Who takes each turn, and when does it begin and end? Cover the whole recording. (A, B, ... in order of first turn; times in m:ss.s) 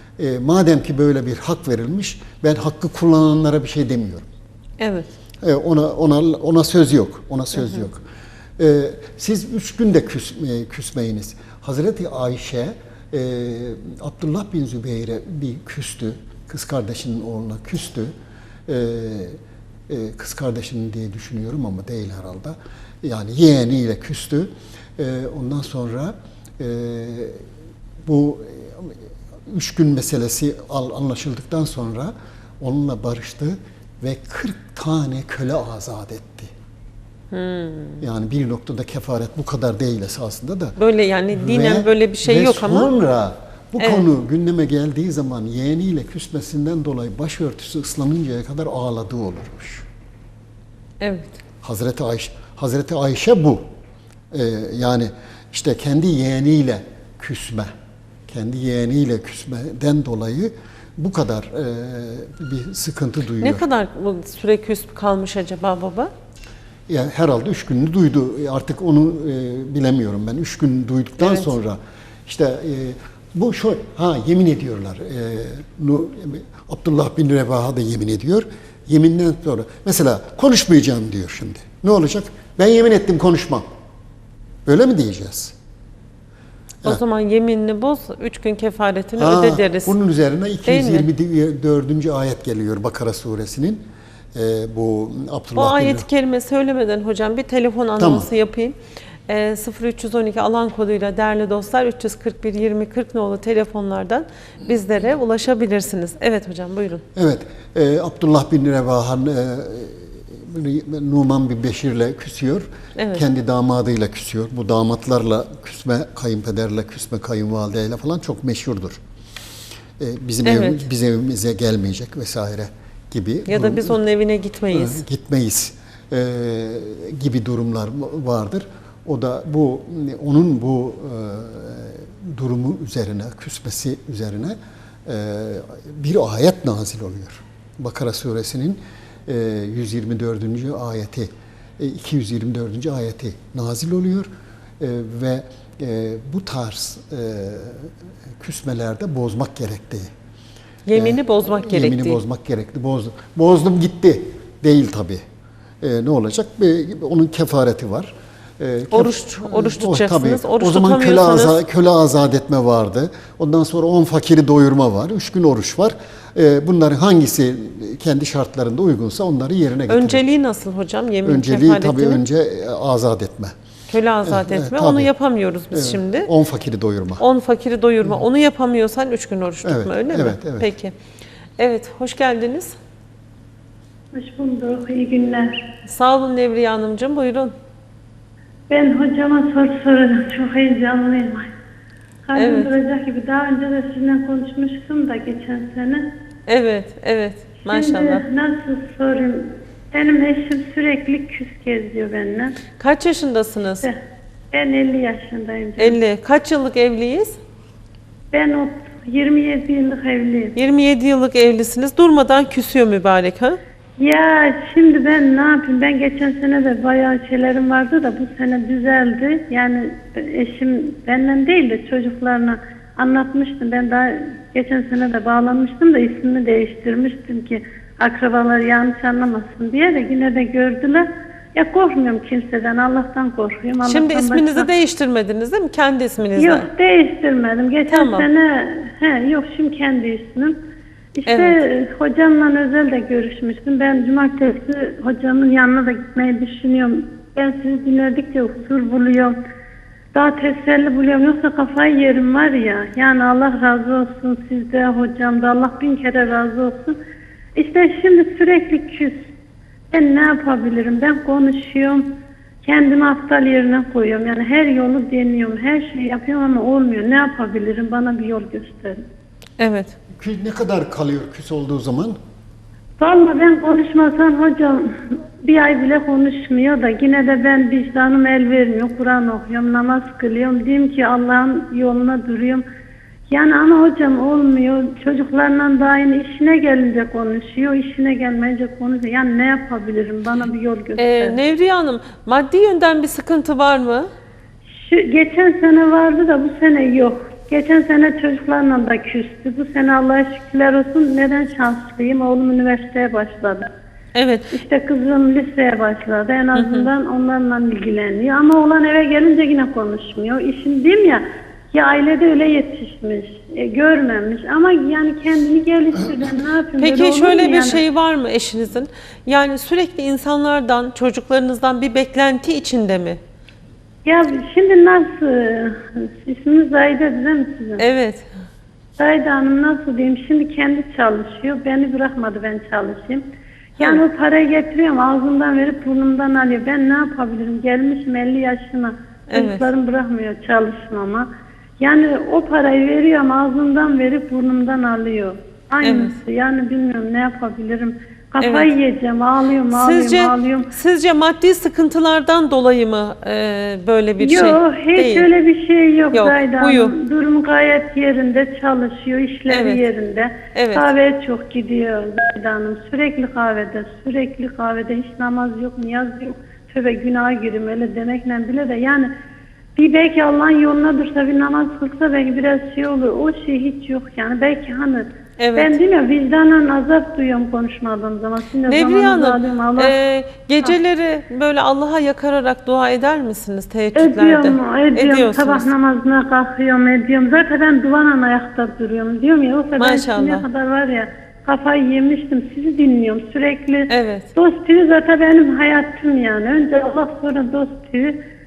0:00.2-0:04.3 A
0:04.8-0:05.1 B
0:05.4-0:08.0 A
0:08.6-0:18.1 A
0:18.7-0:27.4 A
0:28.0-0:29.0 A
0:29.5-0:36.5 A
0:37.3-0:38.0 B
0:38.0-0:40.8 A
0:40.8-0:42.9 B
0:41.3-0:49.8 A
0:43.8-0:44.1 B
0:51.0-0:51.4 B
0:51.6-0:53.6 A
0:54.3-0:57.7 A
0:58.3-1:03.6 A
1:03.4-1:06.1 B
1:06.9-1:23.7 A
1:11.2-1:11.5 B
1:24.7-1:25.6 A
1:26.8-1:29.9 B
1:29.2-1:36.1 A
1:30.7-1:31.1 B
1:35.6-1:38.8 B
1:38.0-1:38.3 A
1:39.3-1:47.0 B
1:47.2-1:59.0 A
1:53.0-1:53.2 B
2:00.0-2:04.0 A
2:00.4-2:00.8 B
2:03.5-2:05.0 B
2:04.7-2:30.1 A
2:30.9-2:32.2 B
2:30.9-2:35.2 A
2:35.8-2:50.2 A
2:38.9-2:41.6 B
2:49.9-2:52.2 B
2:51.2-2:53.6 A
2:53.9-2:56.3 B
2:54.2-2:55.1 A
2:55.7-2:57.2 A
2:57.2-3:00.9 B
2:59.6-3:00.7 A
3:01.6-3:02.8 B
3:04.1-3:05.7 C
3:05.9-3:07.5 B
3:08.7-3:11.5 C
3:12.3-3:16.1 C
3:12.4-3:12.7 B
3:16.5-3:18.2 B
3:17.7-3:22.6 C
3:22.8-3:23.9 B
3:24.5-3:26.0 C
3:25.8-3:27.4 B
3:28.3-3:30.6 C
3:30.6-3:33.6 B
3:34.0-3:54.7 C
3:53.9-3:56.7 B
3:56.4-4:00.6 C
3:57.9-3:58.3 B
4:01.2-4:09.4 C
4:01.3-4:01.6 B
4:10.1-4:17.0 C
4:17.6-4:19.2 C
4:19.9-4:29.0 C
4:29.6-4:30.0 B
4:30.1-4:32.2 A
4:33.0-4:42.6 C
4:43.3-4:51.4 C
4:51.0-4:54.1 B
4:54.8-5:03.7 C
5:04.2-5:04.5 B
5:04.5-5:17.8 C
5:06.6-5:06.9 B
5:16.8-5:23.2 B
5:24.0-5:27.8 C
5:27.8-5:28.3 B
5:29.0-5:33.2 C
5:33.8-5:41.3 C
5:39.3-5:39.7 B
5:41.8-5:50.7 C
5:45.8-5:46.2 B
5:48.4-5:48.7 B
5:49.7-5:55.3 B
5:54.2-6:09.1 C
5:56.1-5:57.0 B
5:59.5-5:59.9 B
6:00.6-6:00.9 B
6:09.8-6:19.9 C
6:15.4-6:15.8 B
6:18.7-6:25.7 B
6:24.0-6:38.2 C
6:29.8-6:30.4 B
6:33.9-6:34.3 B